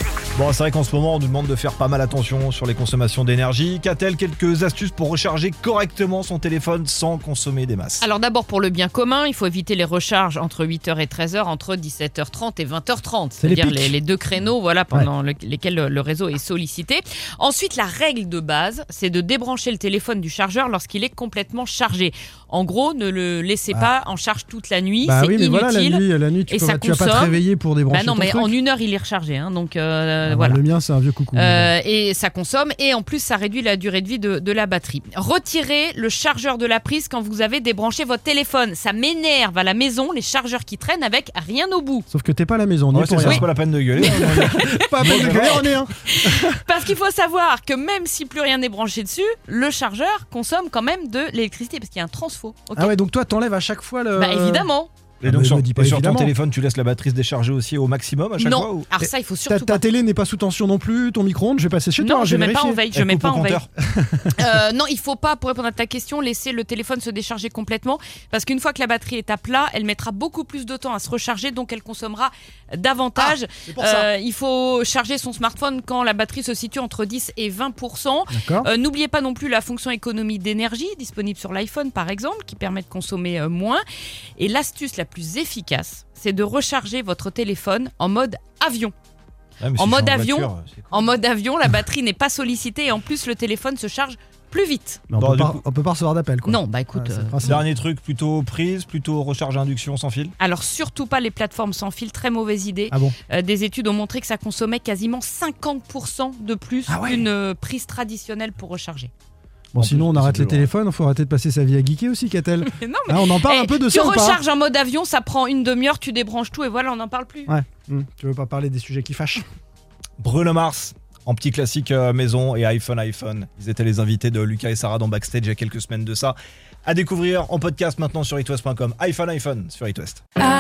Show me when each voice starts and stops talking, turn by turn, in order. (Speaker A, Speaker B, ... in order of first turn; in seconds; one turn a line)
Speaker A: 0.3-8.1
Speaker B: 8.0-30.6
Speaker C: 13.4-13.9
Speaker C: 25.0-28.5
Speaker C: 30.2-31.7
Speaker B: 31.3-42.1
Speaker C: 42.1-46.6
Speaker A: 42.9-45.7
Speaker B: 43.2-52.9
Speaker C: 52.7-54.7
Speaker B: 54.1-54.9
Speaker A: 55.2-58.9
Speaker C: 55.2-56.3
Speaker B: 58.4-59.8
Speaker C: 59.0-62.8
Speaker B: 62.0-63.6
Speaker A: 62.9-63.7
Speaker C: 63.9-64.4
Speaker B: 64.3-83.8
Speaker C: 73.2-74.1
Speaker C: 78.3-78.7
Speaker B: 84.4-88.9
Speaker A: 89.6-91.0
Speaker B: 89.8-95.1
Speaker C: 95.1-97.6
Speaker A: 95.2-95.6
Speaker B: 96.5-97.6
Speaker A: 97.4-100.3
Speaker B: 100.4-109.1
Speaker C: 106.9-107.2
Speaker C: 109.7-114.4
Speaker A: 109.8-110.7
Speaker B: 112.6-117.5
Speaker C: 117.5-119.5
Speaker A: 120.2-130.2